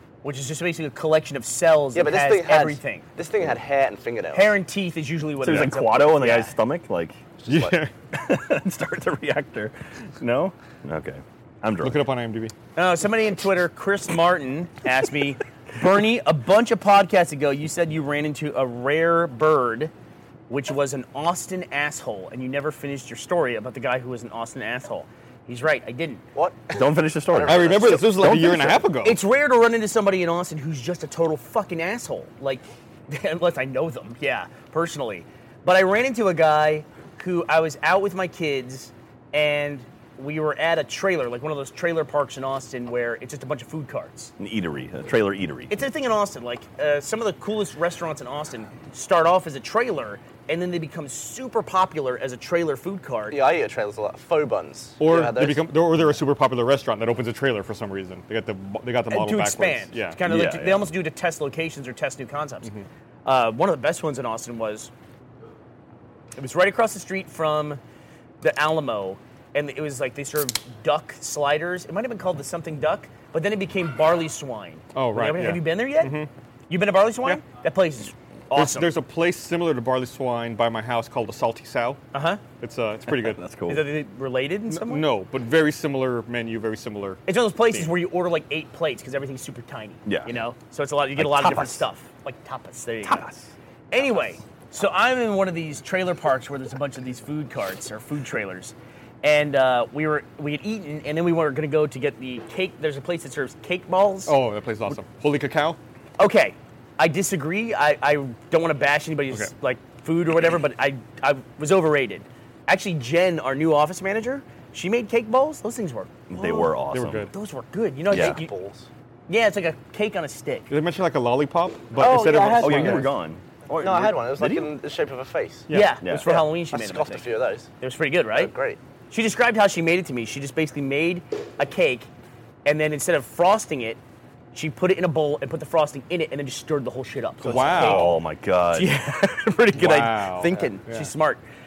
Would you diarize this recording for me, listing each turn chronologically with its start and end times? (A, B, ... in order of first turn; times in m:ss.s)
0:00.2-0:03.0 A
0:01.9-0:04.5 B
0:04.3-0:06.5 A
0:05.4-0:07.2 C
0:07.4-0:07.8 B
0:07.5-0:07.9 D
0:08.1-0:12.0 C
0:11.8-0:12.5 D
0:12.8-0:19.9 A
0:20.5-0:26.2 A
0:26.3-0:28.3 B
0:26.7-0:28.8 C
0:27.5-0:29.2 D
0:29.0-0:44.3 A
0:44.4-0:45.7 C
0:45.7-0:53.4 A
0:53.3-0:55.7 B
0:55.0-1:00.2 D
0:59.1-1:02.7 A
1:00.2-1:00.9 C
1:03.2-1:04.9 A
1:06.4-1:07.8 A
1:08.4-1:16.2 A
1:14.9-1:16.3 D
1:16.7-1:18.9 A
1:18.5-1:22.0 D
1:22.1-1:22.4 A
1:22.6-1:23.4 D
1:23.1-1:23.8 C
1:23.7-1:25.0 A
1:24.7-1:27.9 D
1:27.3-1:33.2 A
1:30.0-1:30.3 C
1:31.2-1:31.9 C
1:33.0-1:33.5 C
1:33.9-1:44.3 A
1:44.3-1:45.8 D
1:46.2-1:56.7 A
1:56.3-1:57.3 C
1:56.9-1:57.3 D
1:57.3-1:58.5 A
1:58.1-1:58.4 C
1:58.1-1:58.9 B
1:59.3-2:00.7 A
2:00.7-2:03.1 D
2:02.0-2:03.1 B
2:02.6-2:04.7 C
2:03.8-2:05.7 B
2:05.7-2:06.0 D
2:05.7-2:07.2 A
2:06.0-2:06.4 C
2:06.2-2:07.7 B
2:07.8-2:08.5 A
2:08.3-2:08.8 B
2:09.1-2:12.1 A
2:12.6-2:14.0 A
2:14.5-2:18.1 A
2:17.4-2:18.2 D
2:17.7-2:18.9 C
2:18.7-2:21.4 A
2:19.7-2:21.1 D